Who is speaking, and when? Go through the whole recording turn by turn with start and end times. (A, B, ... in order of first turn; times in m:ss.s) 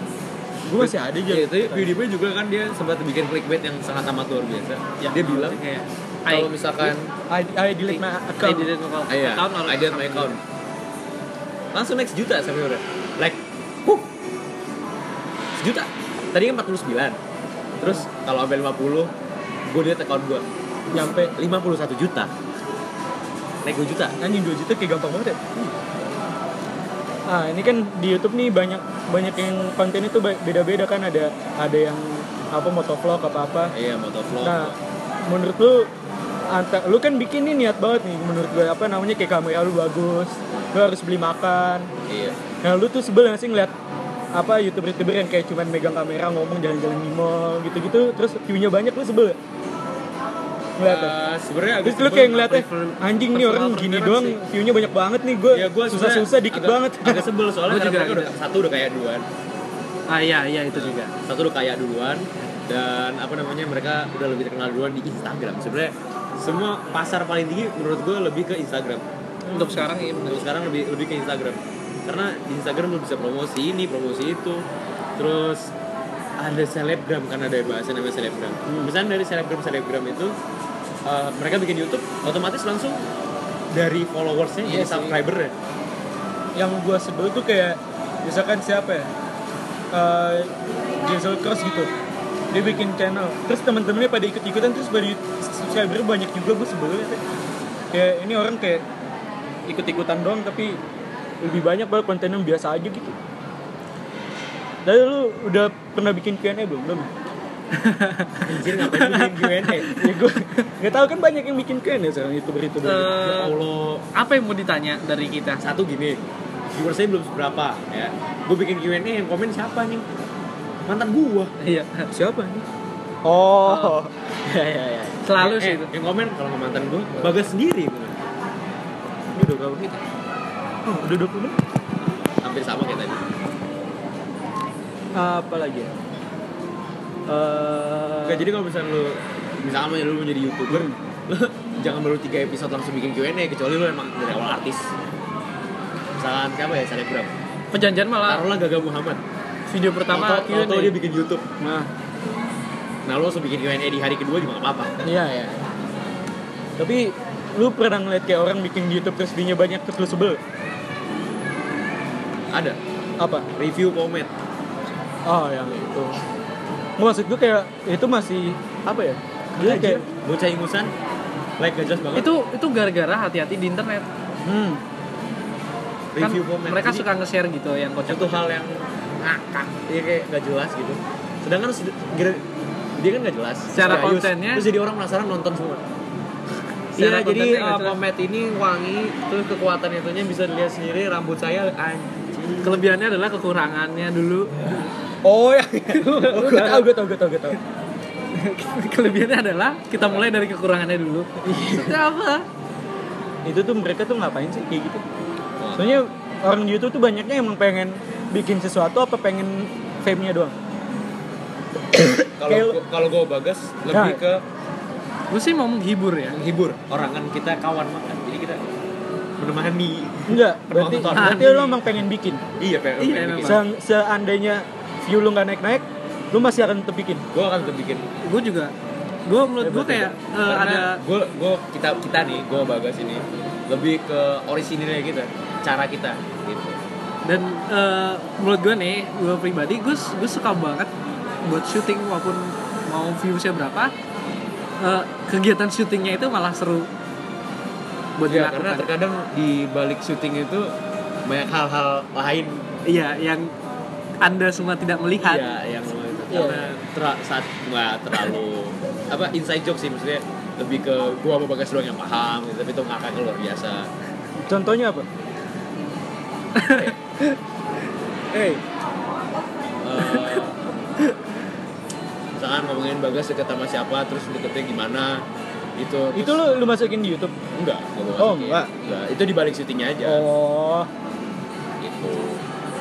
0:00.7-0:01.9 A
0:00.8-0:05.6 B
0:05.0-0:06.9 C
0:06.3-0:07.1 B
0:07.3-0:08.7 A
0:07.9-0:10.4 C
0:09.1-0:10.4 B
0:11.7-0:14.1 B
0:15.6-0:17.2 B
0:17.8-0:19.1 B
0:19.7-0:20.4 B
0:20.9-0:21.3 A
0:21.4-0:22.3 B
0:23.6-0:24.2 B
0:24.2-0:25.4 A
0:27.3-0:33.7 A
0:33.7-0:34.8 B
0:34.4-0:34.7 A
0:35.3-0:35.9 A
0:36.5-0:41.9 A
0:42.1-0:42.4 B
0:42.6-0:43.7 A
0:44.4-0:49.4 A
0:50.8-0:51.2 A
0:50.8-0:52.4 B
0:51.8-0:57.3 A
0:52.2-0:54.4 C
0:55.5-0:59.3 B
0:57.7-0:58.3 C
1:00.1-1:01.1 C
1:00.7-1:09.0 B
1:09.4-1:09.9 A
1:09.5-1:10.5 C
1:10.3-1:14.7 B
1:15.2-1:15.7 B
1:16.4-1:20.3 B
1:21.1-1:23.0 B
1:23.7-1:25.5 B
1:24.6-1:25.2 A
1:26.6-1:29.1 A
1:29.9-1:31.9 A
1:32.5-1:37.2 A
1:37.9-1:38.8 A
1:39.7-1:40.8 A
1:41.4-1:43.2 A
1:44.8-1:47.1 A
1:47.7-1:50.1 C
1:48.4-1:49.9 B
1:49.9-1:53.2 A
1:52.8-1:53.6 C
1:53.1-1:54.0 B
1:54.1-1:55.6 C
1:55.6-1:56.2 B
1:56.7-2:00.0 B
2:00.9-2:01.5 B
2:01.6-2:02.1 C
2:02.1-2:02.6 A
2:03.2-2:05.2 A
2:03.6-2:04.0 C
2:05.2-2:05.9 C
2:05.4-2:08.2 B
2:09.4-2:10.0 A
2:10.9-2:11.6 A
2:12.4-2:13.2 B
2:15.2-2:15.9 A
2:17.3-2:18.5 A
2:18.2-2:24.9 B
2:20.7-2:21.0 A
2:26.2-2:27.3 B
2:27.7-2:28.4 C
2:28.3-2:29.2 B
2:29.7-2:31.0 C
2:30.1-2:31.4 B
2:31.6-2:31.9 A
2:33.1-2:35.1 B
2:35.0-2:35.6 A
2:36.8-2:40.4 A
2:42.5-2:42.8 B
2:43.2-2:43.5 A
2:43.6-2:44.3 B
2:45.3-2:46.2 A
2:47.0-2:50.0 A
2:49.6-2:50.9 B
2:51.6-2:52.3 B
2:52.2-2:54.1 C
2:54.4-2:54.8 A
2:56.1-2:57.1 B
2:56.2-2:58.4 C
2:58.1-3:02.4 B
3:03.0-3:05.8 B
3:03.7-3:04.7 C
3:07.0-3:12.8 B
3:07.0-3:08.0 C
3:12.6-3:14.9 C
3:15.2-3:17.6 A
3:15.9-3:16.8 C
3:16.1-3:16.6 B
3:18.4-3:22.4 C
3:21.5-3:22.0 A
3:23.5-3:25.0 A
3:25.6-3:26.0 B
3:25.8-3:30.5 A
3:31.9-3:32.8 A
3:32.4-3:34.4 B
3:33.9-3:34.2 A
3:35.3-3:36.4 C
3:36.3-3:38.6 B
3:39.4-3:41.5 B
3:40.3-3:42.4 A
3:41.1-3:41.8 C
3:42.6-3:43.6 B
3:43.0-3:43.6 C
3:43.4-3:47.2 A
3:47.3-3:48.1 B
3:48.2-3:48.7 C
3:49.3-3:51.0 C
3:49.6-3:50.1 A
3:50.4-3:56.8 B
3:57.2-4:00.9 C
4:01.4-4:03.9 C
4:04.8-4:06.9 C
4:08.2-4:08.9 C
4:08.3-4:10.8 B
4:11.3-4:12.7 B
4:12.9-4:13.5 C
4:14.2-4:15.5 C
4:15.2-4:23.9 B
4:16.3-4:16.7 A
4:24.5-4:25.1 A
4:26.6-4:26.9 C
4:26.6-4:27.0 B
4:28.3-4:28.6 A
4:29.8-4:30.6 B
4:30.1-4:30.4 C
4:32.4-4:35.2 B
4:35.8-4:36.4 B
4:36.2-4:37.4 A
4:37.6-4:40.2 B
4:38.2-4:38.7 A
4:40.0-4:40.9 A
4:41.8-4:42.4 B